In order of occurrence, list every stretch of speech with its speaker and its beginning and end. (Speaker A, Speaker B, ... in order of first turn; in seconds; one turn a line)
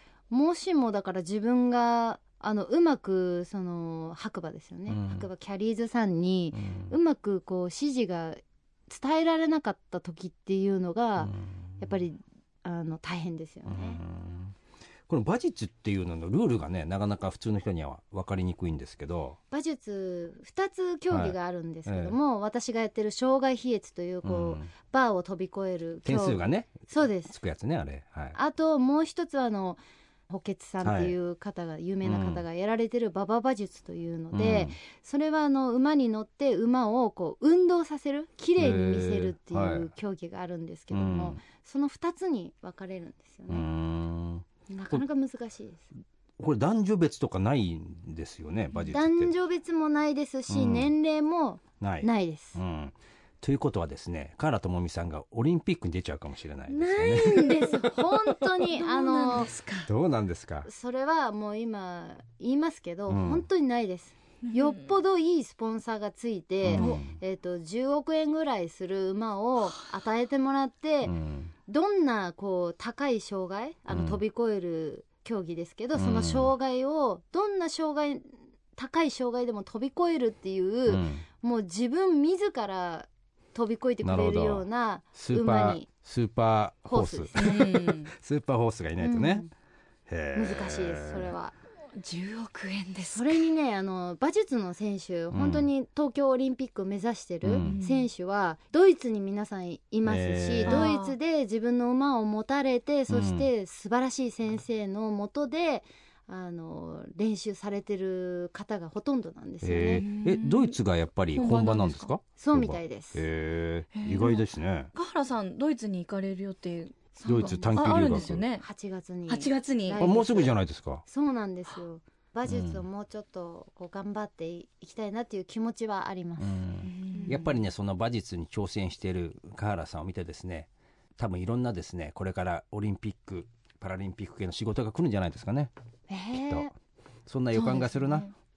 Speaker A: 0.3-14.0
Speaker B: 4.9-5.3
Speaker B: 6.5-6.9
Speaker B: 11.2-11.6
Speaker B: 13.7-14.6
Speaker B: 15.1-19.4
Speaker A: 19.5-27.4
Speaker B: 21.1-22.2
Speaker B: 24.2-24.7
Speaker B: 26.1-28.4
Speaker A: 28.3-43.7
Speaker B: 30.8-31.1
Speaker B: 32.0-32.4
Speaker B: 34.3-34.8
Speaker B: 38.6-39.9
Speaker B: 40.9-41.4
Speaker B: 43.5-45.0
Speaker A: 44.7-45.9
Speaker B: 46.4-49.3
Speaker A: 48.9-52.6
Speaker B: 50.5-50.9
Speaker B: 51.8-57.9
Speaker A: 56.7-59.5
Speaker C: 58.7-59.9
Speaker B: 59.9-60.7
Speaker A: 60.7-85.9
Speaker B: 63.1-63.5
Speaker C: 64.5-64.9
Speaker B: 66.6-67.2
Speaker C: 66.7-67.0
Speaker B: 71.0-71.5
Speaker B: 73.9-74.2
Speaker B: 75.9-76.5
Speaker B: 80.9-81.2
Speaker B: 84.0-89.4
Speaker A: 86.9-87.6
Speaker C: 87.4-88.1
Speaker A: 89.0-89.5
Speaker B: 90.1-91.3
Speaker A: 90.3-91.6
Speaker C: 91.9-93.5
Speaker A: 93.1-110.0
Speaker B: 95.3-95.7
Speaker B: 97.4-97.8
Speaker C: 97.6-98.1
Speaker B: 100.0-100.9
Speaker C: 100.7-101.2
Speaker B: 103.1-103.5
Speaker B: 109.6-114.9
Speaker C: 110.0-110.8
Speaker C: 111.3-112.1
Speaker A: 112.4-113.2
Speaker C: 113.9-118.7
Speaker A: 117.2-126.6
Speaker B: 117.2-118.4
Speaker C: 119.3-120.0
Speaker B: 120.0-121.0
Speaker B: 122.5-122.8
Speaker B: 126.4-135.7
Speaker C: 126.8-127.5
Speaker A: 127.1-127.5
Speaker A: 136.1-136.7
Speaker B: 136.3-136.7
Speaker B: 137.2-138.2
Speaker C: 137.5-138.3